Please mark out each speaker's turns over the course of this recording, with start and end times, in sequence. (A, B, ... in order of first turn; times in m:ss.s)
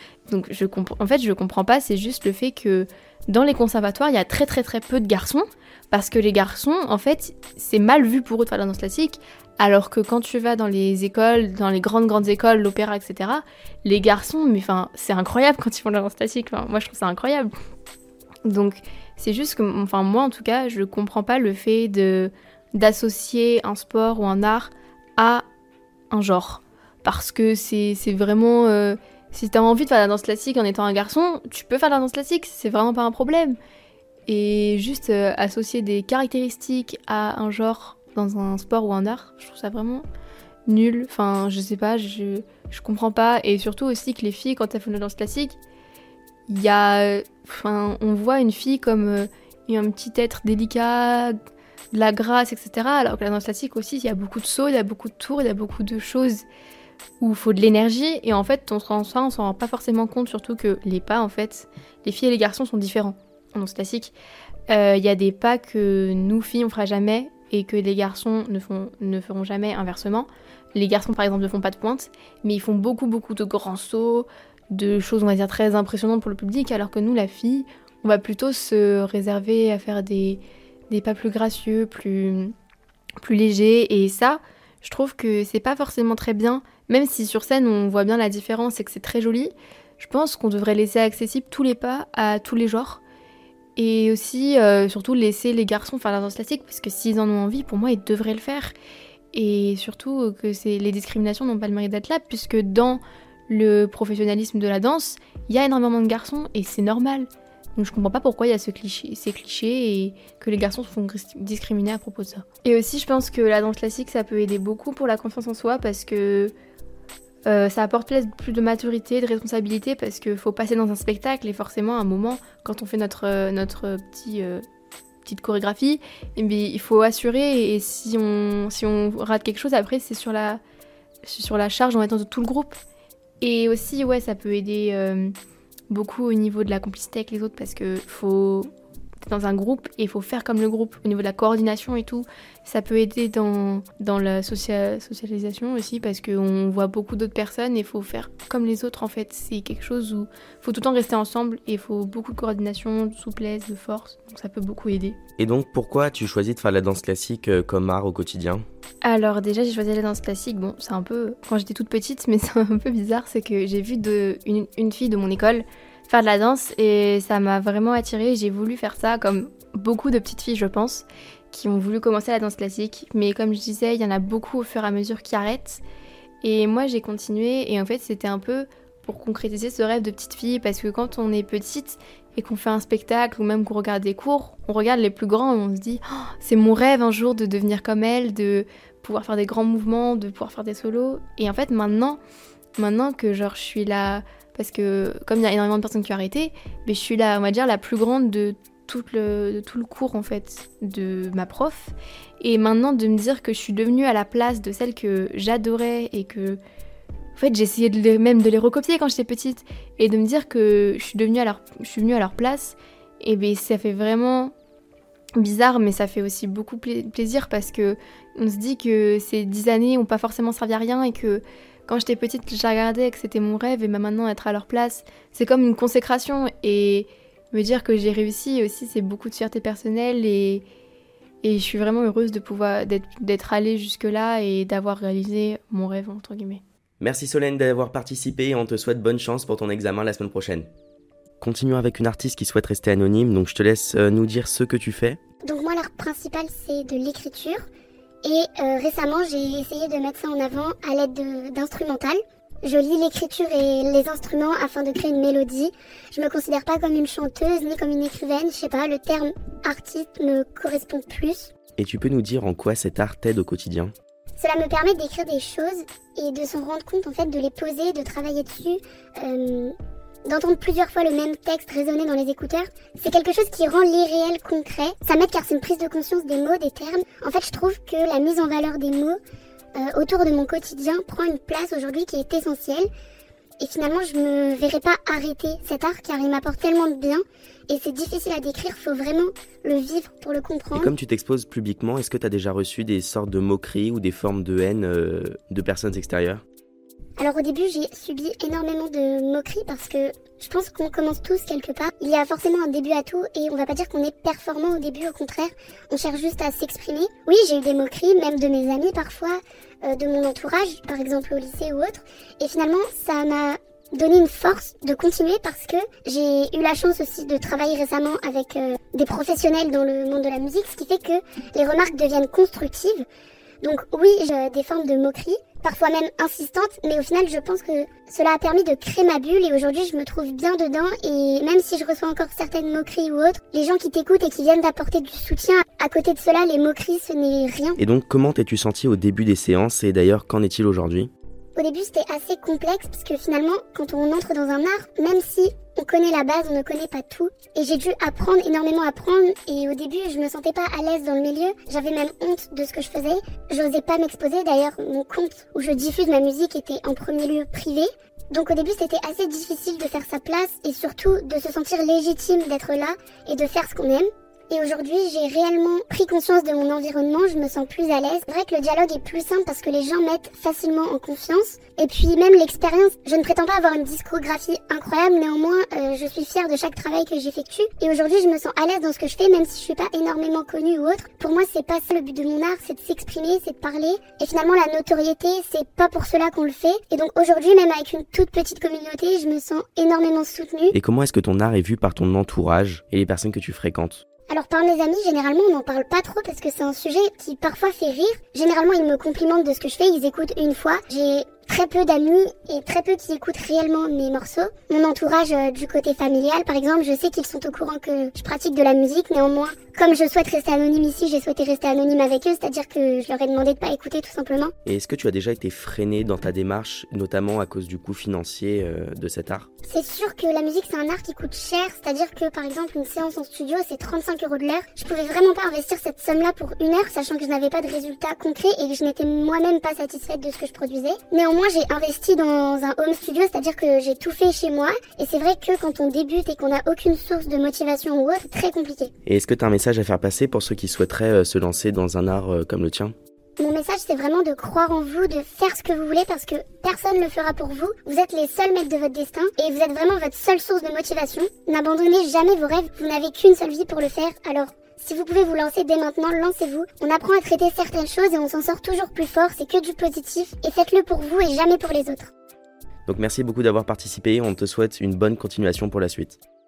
0:00.3-0:17.5 A
0:18.4-0:25.4 A
0:26.1-0:33.6 A
0:34.3-0:40.0 A
0:40.7-0:45.6 A
0:46.5-0:51.4 A
0:51.9-0:56.4 A
0:57.2-1:04.1 A
1:04.7-1:22.5 A
1:23.2-1:33.0 A
1:33.8-1:38.7 A
1:39.3-1:56.5 A
1:57.4-2:04.6 A
2:05.2-2:10.6 A
2:11.2-2:12.8 A
2:13.4-2:15.3 A
2:15.9-2:18.7 A
2:19.2-2:35.2 A
2:35.4-2:38.6 B
2:39.0-2:55.8 A
2:56.4-3:12.2 A
3:12.8-3:26.6 A
3:27.4-3:34.5 A
3:35.4-3:50.6 A
3:51.4-3:56.6 A
3:57.0-4:00.7 B
4:01.4-4:05.2 B
4:05.4-4:07.6 C
4:08.2-4:21.5 C
4:21.8-4:23.9 B
4:24.4-4:29.7 C
4:30.2-4:39.2 C
4:39.8-4:42.9 C
4:43.6-4:50.9 C
4:50.7-4:56.4 B
4:57.2-5:23.0 C
5:23.6-5:37.8 C
5:37.8-5:41.1 B
5:41.5-6:30.7 C
6:30.7-6:34.0 B
6:34.3-6:54.5 C
6:54.6-6:59.5 B
6:59.6-7:18.9 C
7:19.0-7:22.9 B
7:23.4-7:42.1 C
7:42.8-7:46.2 B